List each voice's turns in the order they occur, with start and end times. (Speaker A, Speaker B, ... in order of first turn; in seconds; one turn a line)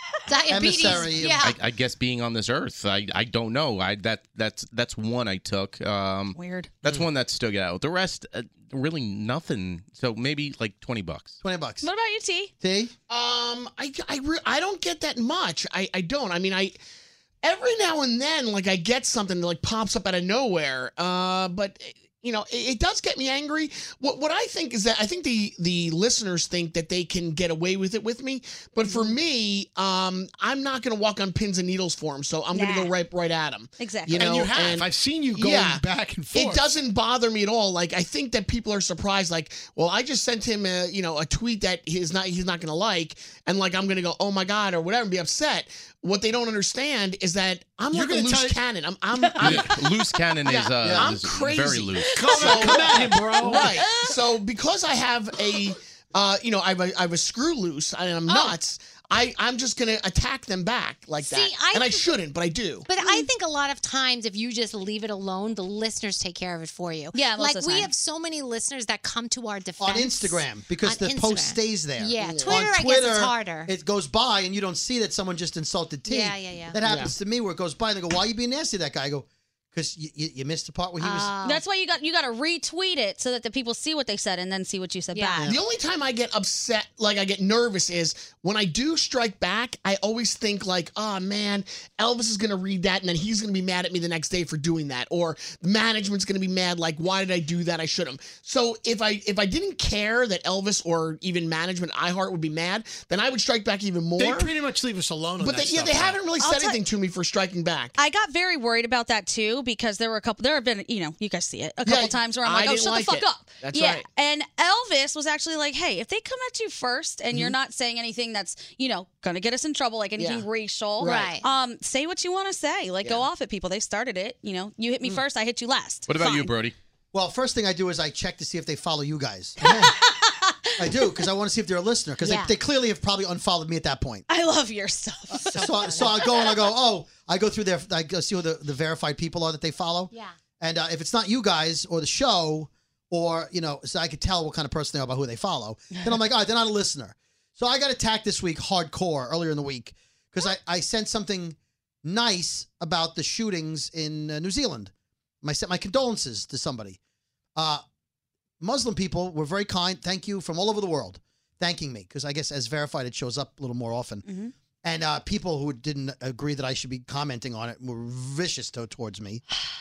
Speaker A: 0.3-1.6
Speaker B: 0.5-1.4
Speaker C: 1.4-11.3
Speaker D: 6.3-6.7
Speaker B: 11.4-11.9
Speaker D: 11.8-12.5
Speaker B: 12.6-12.9
Speaker E: 13.1-16.8
Speaker E: 17.4-49.5
Speaker D: 28.8-29.2
Speaker D: 32.5-33.0
Speaker D: 33.8-34.3
Speaker F: 34.1-36.8
Speaker F: 47.9-48.6
Speaker D: 49.1-49.6
Speaker C: 49.4-52.9
Speaker F: 49.4-49.8
Speaker E: 50.5-52.7
Speaker B: 50.5-51.1
Speaker F: 52.1-54.0
Speaker A: 52.5-53.0
Speaker D: 53.0-54.1
Speaker A: 53.5-53.8
Speaker E: 53.5-62.9
Speaker A: 61.2-62.3
Speaker A: 62.8-73.7
Speaker D: 63.0-63.3
Speaker D: 67.1-67.9
Speaker B: 69.8-81.3
Speaker E: 72.2-72.5
Speaker A: 76.0-76.8
Speaker E: 76.8-77.1
Speaker A: 81.0-81.6
Speaker D: 81.4-85.6
Speaker A: 85.1-85.5
Speaker B: 85.4-85.7
Speaker E: 85.5-104.5
Speaker F: 104.2-106.2
Speaker E: 105.4-108.0
Speaker D: 106.4-106.8
Speaker D: 108.0-126.5
Speaker E: 111.8-114.1
Speaker E: 120.2-120.5
Speaker A: 121.0-121.4
Speaker C: 126.1-126.7
Speaker B: 127.1-130.0
Speaker D: 129.6-130.5
Speaker B: 130.8-134.3
Speaker A: 132.2-132.6
Speaker D: 134.3-135.7
Speaker A: 135.4-136.3
Speaker B: 135.5-154.9
Speaker B: 155.4-157.0
Speaker B: 157.6-157.8
Speaker B: 158.6-164.3
Speaker D: 164.2-164.5
Speaker B: 164.8-169.4